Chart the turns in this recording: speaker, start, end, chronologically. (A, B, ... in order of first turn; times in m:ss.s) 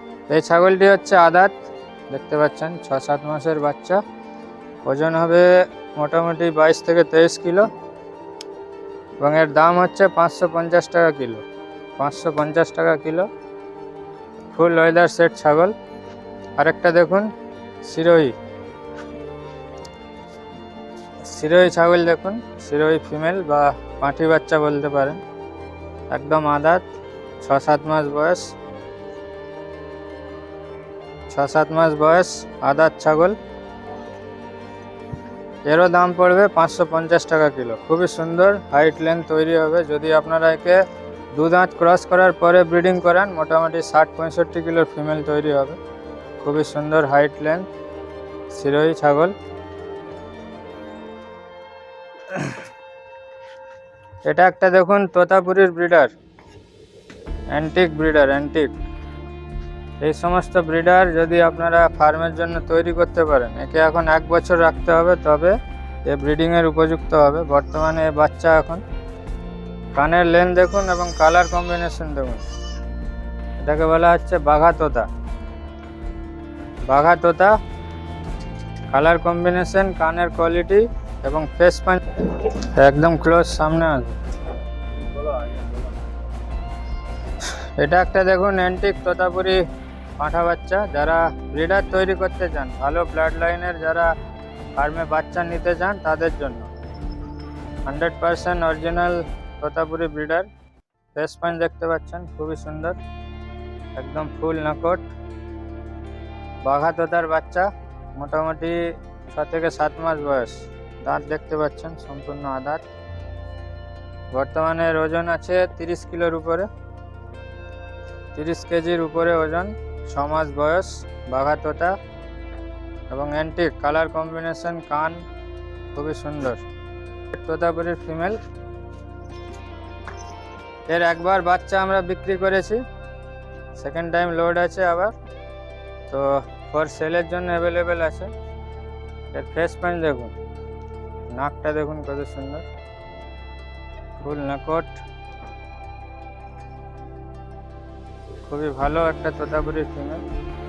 0:00.3-0:01.6 A
0:02.1-0:04.0 A
0:04.9-0:07.7 A
0:09.2-0:11.4 A
0:12.0-0:13.3 A
0:14.5-0:15.7 A
0:16.6-0:17.3 A
0:17.8-0:18.3 A
0:21.3-0:25.2 A
0:26.1-0:26.8 A
0:27.4-0:28.5 A
0:31.3-0:33.4 A
0:35.7-0:40.8 A
0:41.3-0:45.8 A
0:46.4-0:47.7 A
0:48.5-0:49.3 A
0:54.2-0:56.1 A
0:57.5-0:58.8 A
1:00.0-1:08.8 A
1:10.0-1:12.4 A
1:13.6-1:15.1 A
1:16.9-1:17.6 A
1:18.9-1:24.1 A
1:27.8-1:29.6 A
1:30.2-1:34.1 A
1:34.8-1:36.7 A
1:37.9-1:40.5 A
1:41.2-1:43.0 A
1:44.0-1:45.1 A
1:46.6-1:52.8 A
1:54.3-1:56.7 A
1:58.4-2:02.0 A
2:03.1-2:05.2 A
2:05.9-2:06.6 A
2:07.3-2:08.4 A
2:10.9-2:12.8 A
2:13.8-2:15.1 A
2:16.1-2:18.3 A
2:19.3-2:20.4 A
2:21.3-2:22.7 A
2:24.2-2:25.0 A
2:28.4-2:30.2 A